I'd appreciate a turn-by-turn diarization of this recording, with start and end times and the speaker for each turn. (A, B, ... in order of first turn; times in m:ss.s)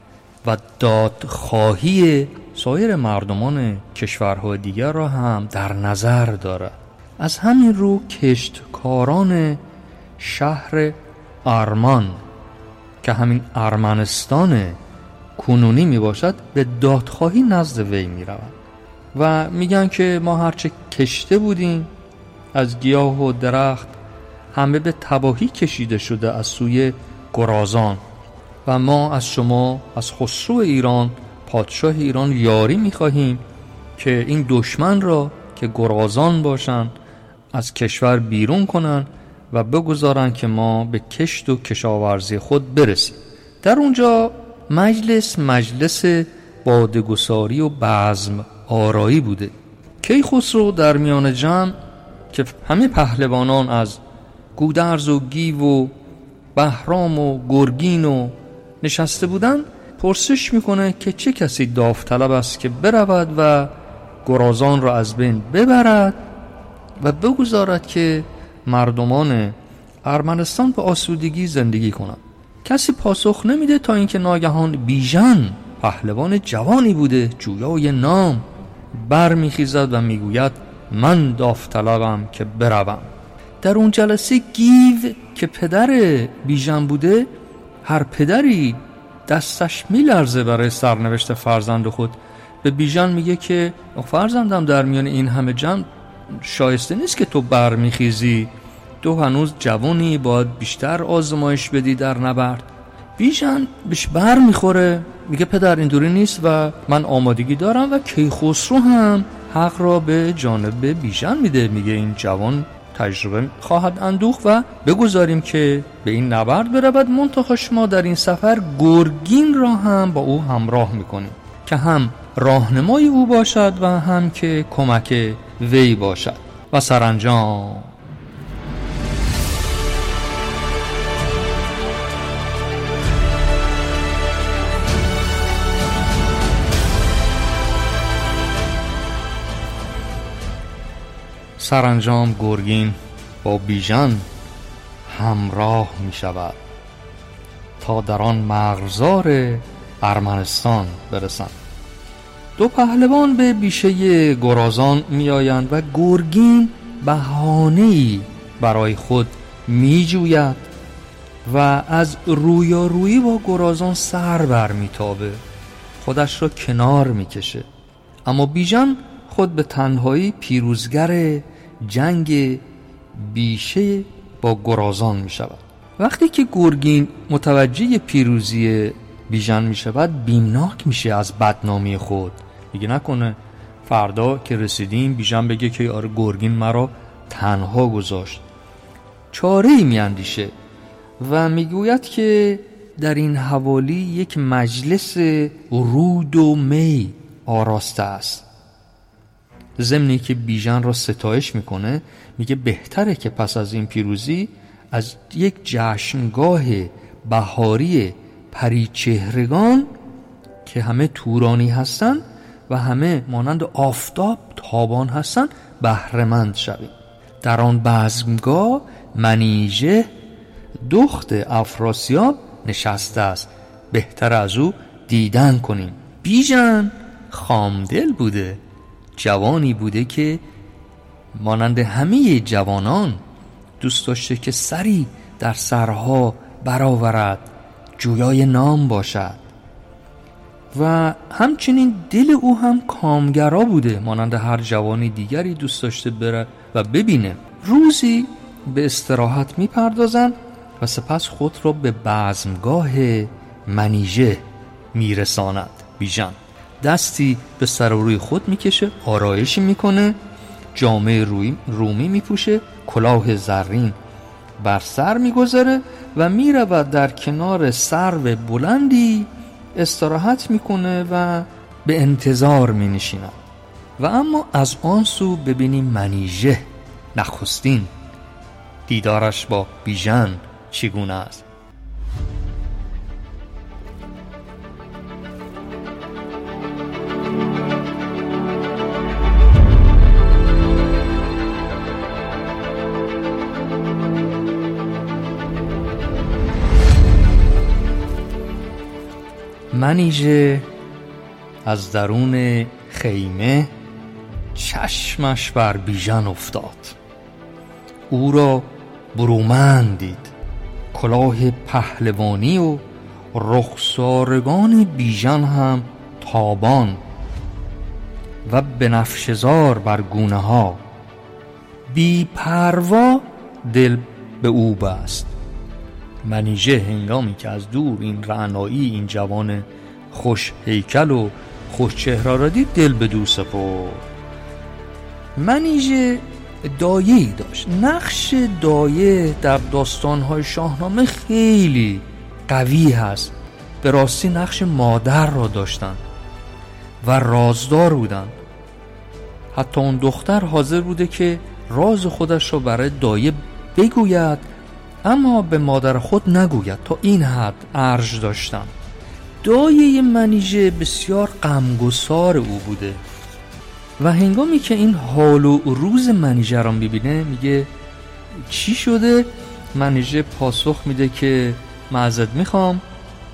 0:00.4-0:09.6 A
0:10.2-0:12.2 A
0:13.0-0:14.8 A
0:15.4-0:18.5 A
0:19.1-0:21.9 A
0:22.5-0:24.0 A
0:24.5-0:28.0 A
0:28.6-0:33.4 A
0:34.0-0:36.9 A
0:37.5-0:51.8 A
0:52.3-0:54.0 A
0:54.6-0:55.9 A
0:56.5-1:03.7 A
1:04.2-1:06.2 A
1:07.0-1:27.3 A
1:27.8-2:07.9 A
2:21.6-2:24.2 A
2:25.1-2:26.6 A
2:27.8-2:31.6 A
2:32.6-2:40.6 A
2:41.4-2:45.4 A
2:46.0-2:47.7 A
2:48.2-3:08.4 A
3:09.3-3:10.5 A
3:11.2-3:18.4 A
3:19.8-3:29.9 A
3:30.6-3:40.1 A
3:40.8-3:48.6 A
3:49.2-3:50.4 A
3:51.3-3:53.2 A
3:53.8-3:59.4 A
4:00.7-4:20.2 A
4:20.7-4:24.0 A
4:24.6-4:33.3 A
4:34.0-4:37.9 A
4:38.9-4:41.4 A
4:59.7-5:00.7 A
5:01.6-5:03.7 A
5:04.5-5:07.0 A
5:08.1-5:10.3 A
5:10.9-5:17.0 A
5:18.4-5:20.8 A
5:21.9-5:25.3 A
5:26.2-5:34.0 A
5:35.4-5:46.0 A
5:47.0-5:48.4 A
5:49.5-5:54.5 A
5:55.0-5:58.7 A
5:59.4-6:03.0 A
6:04.0-6:07.7 A
6:08.4-6:12.8 A